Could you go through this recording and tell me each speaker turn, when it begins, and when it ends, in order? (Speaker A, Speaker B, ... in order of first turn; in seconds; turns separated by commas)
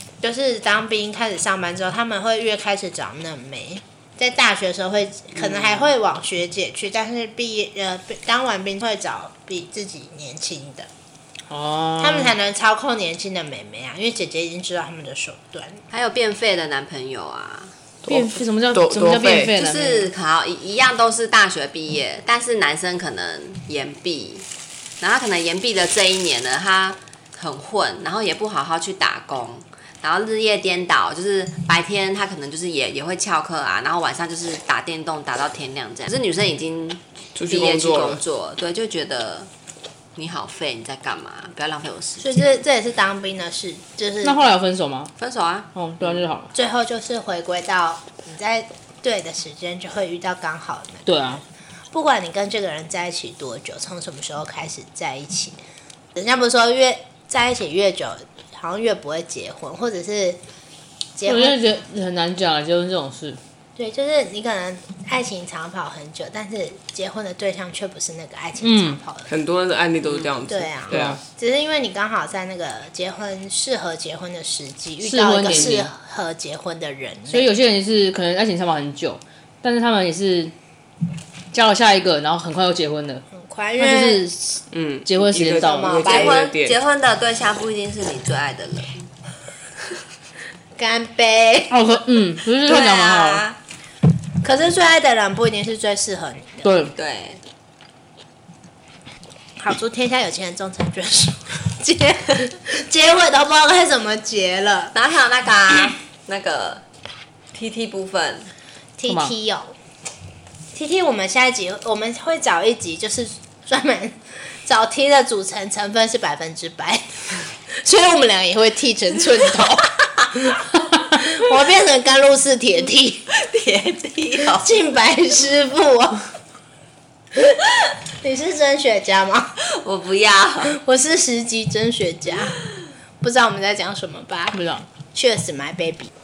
Speaker A: 0.2-10.9, Speaker B: 11.5-12.3, Speaker A: 12.0-15.8, Speaker C: 15.9-17.7, Speaker D: 18.0-19.5, Speaker B: 18.1-20.1, Speaker C: 19.5-24.4, Speaker C: 25.0-39.5, Speaker D: 37.3-38.2, Speaker C: 40.1-42.6, Speaker A: 42.2-44.4, Speaker B: 44.2-45.1, Speaker C: 45.2-45.7, Speaker B: 45.7-46.5, Speaker A: 46.5-51.0, Speaker B: 51.0-51.4, Speaker A: 51.9-55.6, Speaker A: 56.1-60.4, Speaker A: 61.1-61.6, Speaker B: 61.2-63.4, Speaker A: 63.8-69.3, Speaker B: 68.6-69.0, Speaker D: 69.3-71.2, Speaker A: 70.5-77.5, Speaker B: 75.0-75.9, Speaker B: 77.3-80.5, Speaker B: 81.5-83.2, Speaker A: 83.3-84.2, Speaker B: 83.8-86.0, Speaker D: 84.7-86.8, Speaker A: 85.5-86.4, Speaker C: 86.0-89.0, Speaker A: 90.8-91.8, Speaker B: 91.7-93.4, Speaker C: 92.6-93.6, Speaker A: 94.4-96.7, Speaker B: 96.6-96.9, Speaker C: 96.9-97.4, Speaker A: 99.6-104.9, Speaker C: 104.9-106.8, Speaker C: 107.5-108.5, Speaker A: 109.0-109.7, Speaker A: 110.7-117.0, Speaker A: 117.7-123.2, Speaker C: 123.3-124.7, Speaker A: 124.5-126.3, Speaker A: 127.3-129.5, Speaker C: 129.6-130.8, Speaker A: 130.7-132.6, Speaker A: 133.2-134.6, Speaker B: 134.5-134.9, Speaker A: 135.1-136.1